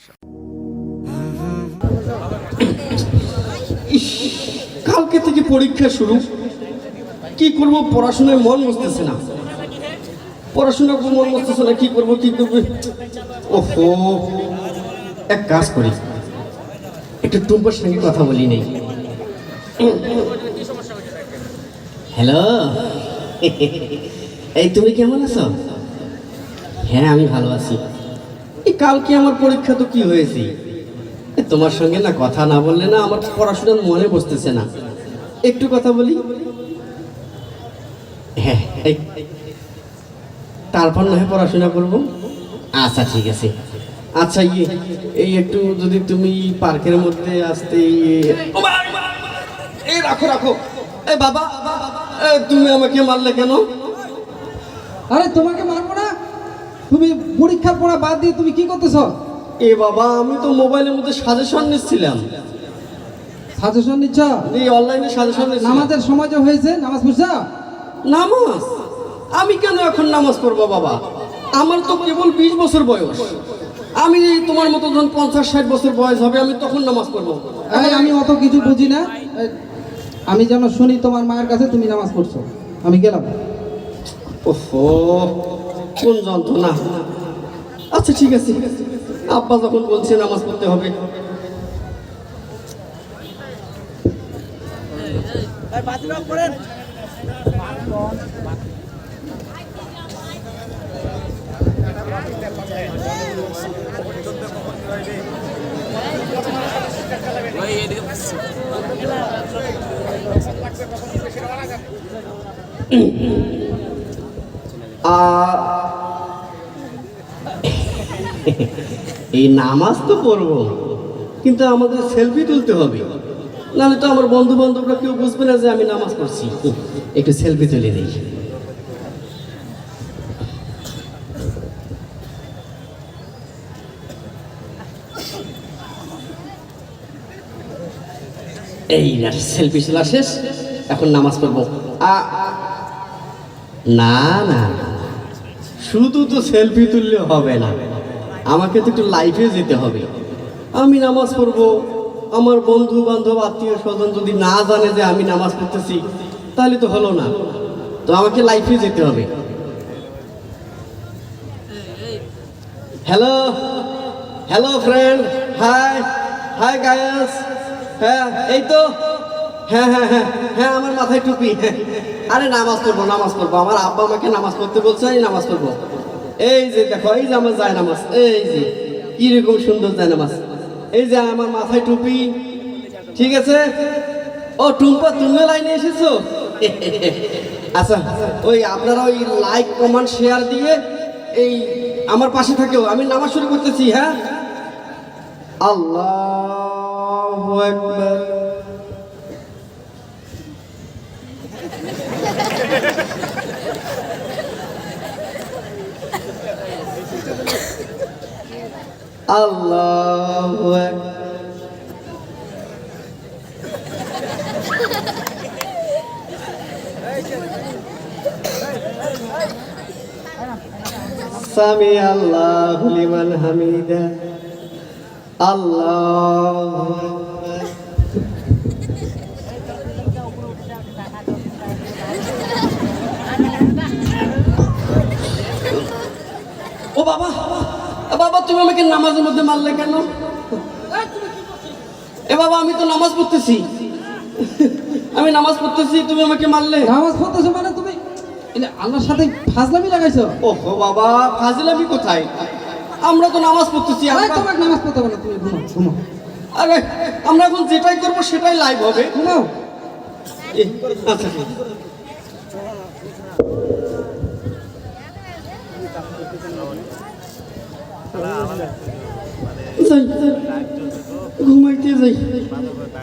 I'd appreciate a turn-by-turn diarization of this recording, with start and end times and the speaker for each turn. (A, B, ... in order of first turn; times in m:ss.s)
0:03.9-0:06.2 A
0:07.4-0:09.2 A
0:10.5-0:12.8 A
0:13.5-0:14.3 A
0:15.3-0:16.0 A
0:17.2-0:18.7 A
0:19.8-0:20.3 A
0:22.2-0:24.0 A
0:24.6-0:25.5 A
0:26.8-0:27.8 A
0:28.7-0:30.5 A
0:31.4-0:34.6 A
0:35.5-0:36.2 A
0:38.4-0:39.0 A
0:40.7-0:42.0 A
0:42.8-0:43.5 A
0:44.2-0:53.7 A
0:55.1-0:56.1 B
0:56.9-0:59.1 B
0:59.6-1:02.2 A
1:03.6-1:04.4 B
1:04.5-1:05.9 A
1:05.6-1:07.4 B
1:08.1-1:08.7 A
1:09.4-1:11.0 A
1:11.6-1:13.3 A
1:14.0-1:18.1 A
1:17.7-1:19.5 B
1:20.3-1:23.3 B
1:24.5-1:25.3 A
1:26.0-1:27.0 A
1:27.9-1:28.6 A
1:29.3-1:30.9 A
1:52.9-1:53.4 A
1:55.1-1:55.8 A
1:59.4-2:00.7 A
2:01.4-2:03.0 A
2:03.8-2:08.2 A
2:18.9-2:20.3 A
2:20.9-2:22.4 A
2:24.0-2:25.0 A
2:25.8-2:27.7 A
2:28.5-2:30.1 A
2:30.8-2:31.7 A
2:32.4-2:36.0 A
2:36.6-2:37.3 A
2:38.1-2:39.3 A
2:43.1-2:43.8 A
2:44.5-2:47.4 A
2:48.0-2:48.9 A
2:49.7-2:55.8 A
2:56.4-3:00.4 A
3:00.9-3:02.4 A
3:03.1-3:03.6 A
3:04.6-3:10.8 A
3:11.4-3:14.2 A
3:15.6-3:18.6 A
3:29.3-3:31.0 A
3:41.3-3:44.2 A
3:45.4-3:47.6 A
3:57.0-4:00.1 A
4:02.3-4:03.7 A
4:04.4-4:06.9 A
4:06.8-4:08.0 B
4:08.6-4:10.3 B
4:10.4-4:12.4 A
4:13.0-4:14.5 A
4:14.1-4:16.0 B
4:16.6-4:19.2 A
4:19.2-4:19.5 B
4:20.6-4:21.5 A
4:29.8-4:30.4 A
4:31.4-4:32.4 A